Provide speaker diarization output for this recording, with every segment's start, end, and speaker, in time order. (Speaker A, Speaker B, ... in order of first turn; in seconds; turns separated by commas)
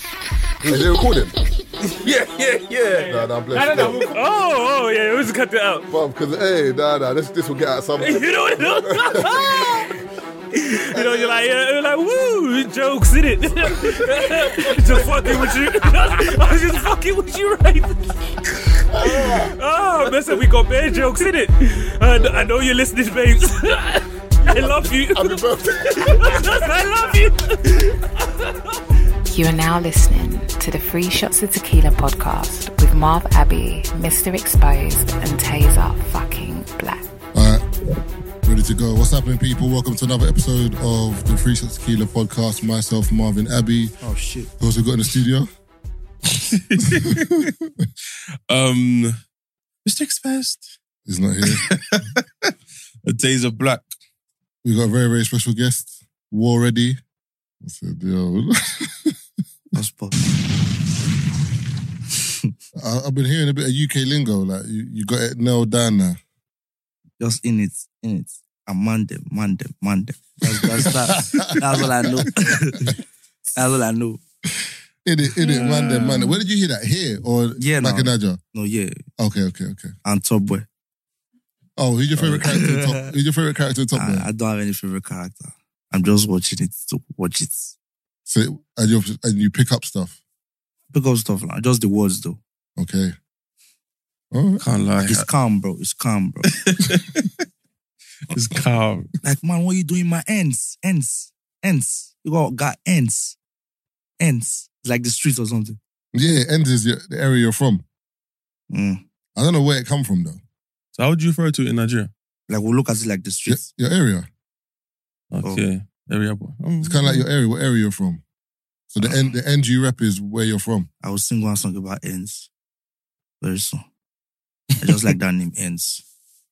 Speaker A: 0.6-1.3, Speaker B: 1.8-5.9, Speaker A: 3.0-4.2, Speaker A: 5.9-9.8, Speaker B: 8.0-10.0, Speaker B: 10.5-28.5, Speaker A: 19.0-19.2, Speaker A: 25.1-26.2, Speaker C: 29.3-37.0, Speaker A: 37.3-37.6, Speaker A: 38.4-43.9, Speaker D: 44.0-44.5, Speaker A: 44.6-45.5, Speaker E: 46.3-47.5, Speaker E: 48.5-49.2, Speaker E: 49.9-50.7, Speaker A: 51.1-51.7, Speaker E: 51.4-52.5, Speaker E: 53.0-53.8, Speaker A: 54.6-57.0, Speaker A: 57.6-59.1, Speaker D: 59.7-60.2, Speaker A: 62.7-66.2, Speaker D: 67.2-73.0, Speaker A: 70.8-72.5, Speaker D: 73.5-74.2, Speaker A: 75.0-78.4, Speaker D: 77.6-79.0, Speaker A: 79.2-79.9, Speaker D: 80.0-80.7, Speaker A: 81.8-84.3, Speaker D: 82.2-82.9, Speaker D: 83.9-87.7, Speaker A: 88.2-90.2, Speaker D: 90.9-92.4, Speaker A: 92.8-93.1, Speaker A: 94.3-94.6, Speaker E: 94.6-95.2, Speaker D: 95.0-96.5, Speaker E: 96.5-97.3, Speaker E: 98.3-99.1, Speaker D: 99.2-103.4, Speaker D: 104.2-105.8, Speaker A: 106.1-107.8, Speaker D: 108.7-109.0, Speaker A: 109.3-110.4, Speaker E: 111.0-112.1, Speaker D: 112.5-113.7, Speaker A: 113.5-114.3, Speaker E: 115.3-117.2, Speaker A: 116.8-118.2, Speaker A: 118.9-120.9, Speaker D: 121.0-122.5, Speaker D: 123.4-123.8, Speaker D: 124.8-126.0